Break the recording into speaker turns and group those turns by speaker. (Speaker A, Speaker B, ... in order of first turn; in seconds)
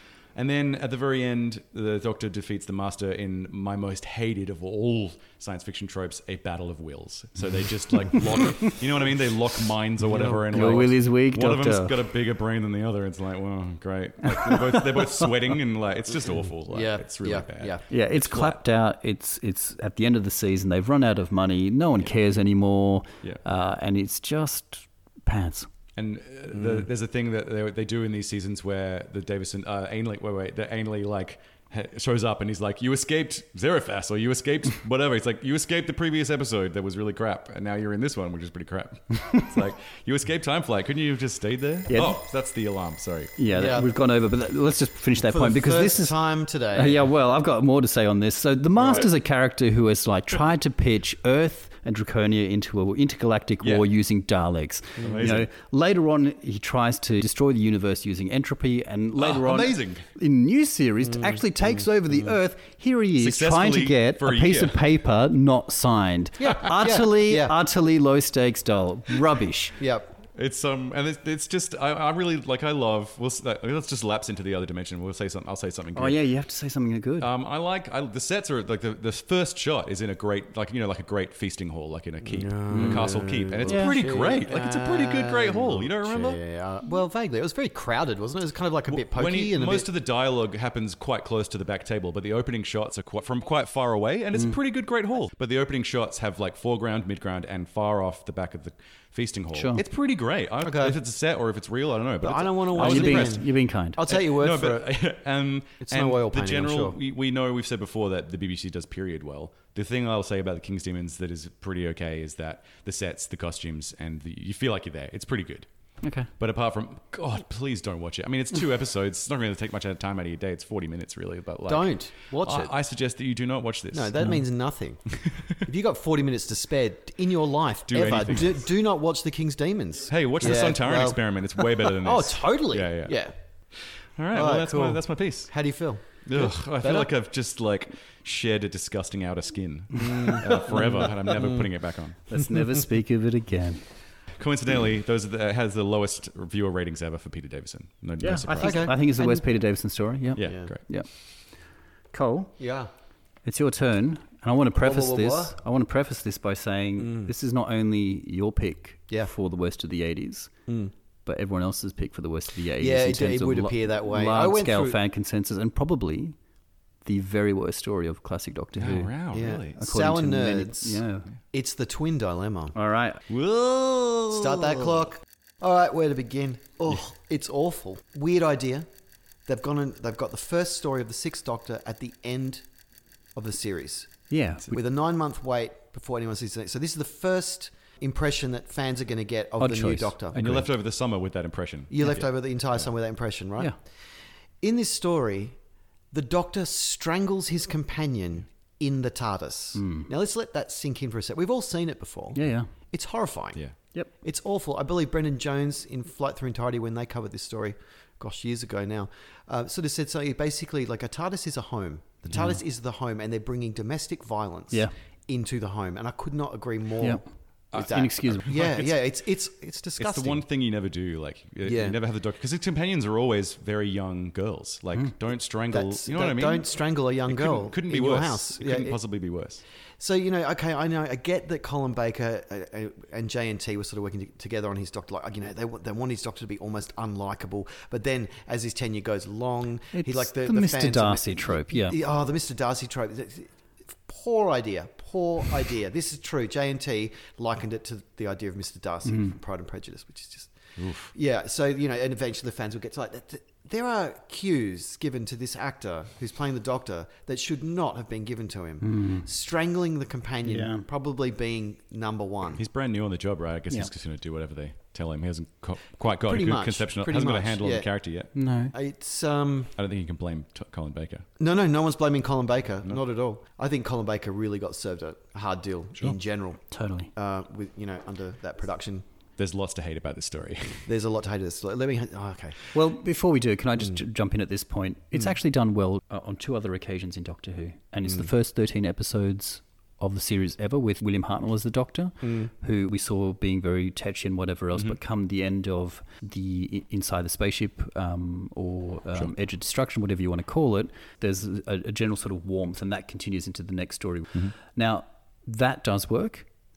Speaker A: 0.3-18.6, 26.0-43.4, 55.0-55.5, 59.2-60.1, 63.2-64.8, 70.3-76.2, 77.2-86.4, 88.9-103.5, 104.1-115.7, 116.4-124.2, 125.2-125.6, 127.9-128.6, 130.1-133.2, 133.8-135.5, 136.2-142.2, 144.4-148.9, 150.4-150.8, 168.8-169.8, 173.3-174.8, 190.3-192.3, 217.7-218.9, 220.0-229.6, 250.8-251.1, 262.5-268.3, 269.8-271.3, 279.4-280.9
Speaker B: 10.1-10.5, 16.7-17.9, 26.6-26.9, 43.5-43.9, 45.2-47.0, 61.0-62.3, 66.4-67.6, 69.8-70.2, 82.2-89.9, 100.6-101.0, 102.2-104.9, 105.8-107.0, 121.7-122.7, 123.9-125.0, 125.6-133.3, 134.3-137.1, 139.9-141.7, 148.5-149.4, 150.4-150.7, 152.6-152.9, 154.8-155.6, 157.0-157.3, 160.7-160.9, 162.8-165.0, 169.3-172.8, 174.3-178.9, 179.5-182.7, 183.3-184.2, 184.7-190.4, 191.9-193.8, 194.6-195.6, 196.1-202.4, 202.9-203.6, 204.2-217.2, 217.7-220.4, 221.6-222.0, 225.7-229.0, 230.0-250.5, 251.1-262.6, 266.3-267.9, 268.7-269.7, 271.4-276.6, 277.1-279.1, 280.9-282.6, 292.2-292.5
Speaker C: 10.2-12.0, 14.3-15.3, 17.9-25.7, 41.9-42.2, 43.4-46.2, 46.7-69.8, 76.0-77.3, 82.7-83.1, 83.6-84.1, 99.5-99.8, 102.8-104.0, 116.0-116.3, 142.3-143.8, 148.2-151.1, 152.1-152.6, 153.4-160.5, 161.3-166.4, 167.1-169.1, 169.8-171.3, 172.8-173.2, 184.3-184.8, 189.6-190.7, 199.8-200.1, 202.4-202.7, 212.3-212.6, 217.7-218.6, 239.9-242.0, 249.1-249.3, 258.8-259.3, 260.5-260.9, 268.4-268.7, 276.7-277.1, 282.7-306.5